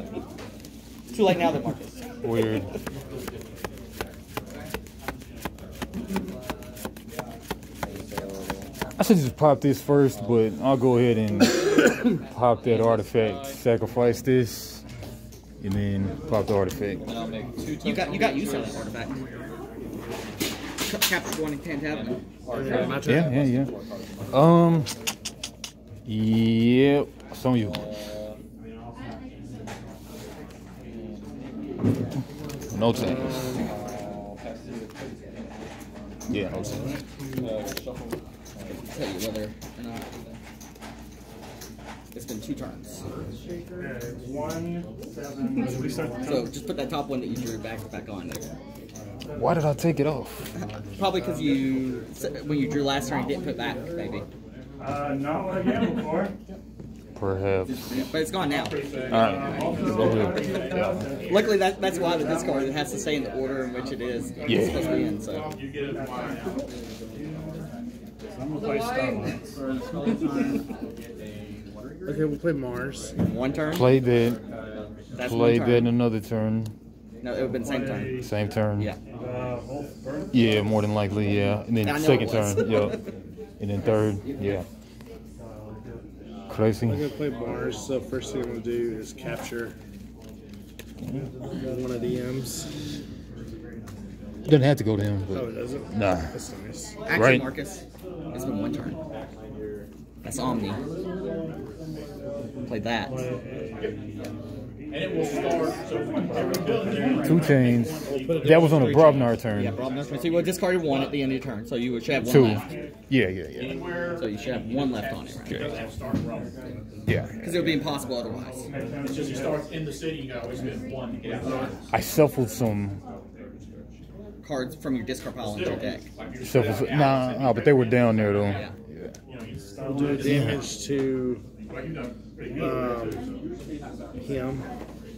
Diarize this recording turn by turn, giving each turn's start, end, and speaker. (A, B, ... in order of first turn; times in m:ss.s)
0:01.1-0:02.7 A
0:02.2-0:02.7 B
0:07.8-0:08.7 C
0:09.0-0:14.8 B
0:10.1-0:10.5 C
0:12.6-0:13.6 C
0:15.6-0:17.0 B
0:17.0-0:18.9 C
0:17.8-0:19.3 A
0:20.9-0:22.2 A
0:21.9-0:24.5 C
0:22.5-0:23.4 D
0:23.0-0:23.7 B
0:24.3-0:24.9 B
0:26.1-0:27.8 B
0:27.6-0:28.4 C
0:30.9-0:31.8 C
0:32.7-0:33.6 B
0:33.0-0:33.5 D
0:33.5-0:35.5 C
0:36.3-0:36.7 B
0:36.5-0:37.5 E
0:37.4-0:39.0 C
0:38.8-0:40.4 A
0:42.1-0:43.0 A
0:43.8-0:46.5 E
0:46.2-0:48.5 A
0:49.0-0:49.6 E
0:49.3-0:50.4 B
0:50.6-0:54.2 A
0:51.2-0:51.7 E
0:54.8-0:56.3 E
0:57.2-0:58.1 B
0:57.9-0:59.8 A
0:58.4-1:01.7 F
0:59.1-1:01.0 B
0:59.2-1:02.7 E
1:01.3-1:05.5 A
1:04.4-1:05.1 B
1:04.5-1:06.7 F
1:08.3-1:10.6 E
1:12.0-1:13.2 D
1:13.2-1:14.0 A
1:13.7-1:14.4 B
1:15.2-1:15.9 A
1:15.2-1:16.7 B
1:17.2-1:19.0 A
1:17.5-1:18.3 E
1:18.2-1:18.9 B
1:19.1-1:20.6 E
1:20.3-1:23.0 B
1:21.8-1:23.1 A
1:23.6-1:24.6 B
1:26.5-1:27.1 B
1:26.8-1:29.7 D
1:31.5-1:32.7 D
1:34.5-1:36.3 B
1:35.3-1:36.9 D
1:37.0-1:37.8 A
1:37.1-1:37.5 B
1:38.3-1:39.0 A
1:40.2-1:40.8 A
1:42.7-1:43.2 A
1:43.1-1:47.6 E
1:44.9-1:51.3 F
1:47.2-1:49.8 B
1:48.0-1:49.0 D
1:48.3-1:52.7 A
1:52.2-1:53.8 B
1:53.5-1:56.5 F
1:54.1-1:55.8 A
1:57.4-1:58.7 A
1:58.7-1:59.6 E
1:59.0-2:01.7 F
2:01.9-2:03.0 B
2:04.4-2:06.1 A
2:05.4-2:08.7 F
2:06.4-2:09.1 B
2:08.5-2:08.8 A
2:09.2-2:10.6 F
2:09.7-2:10.5 E
2:09.8-2:11.4 D
2:11.6-2:13.4 F
2:12.5-2:13.2 D
2:14.2-2:14.6 D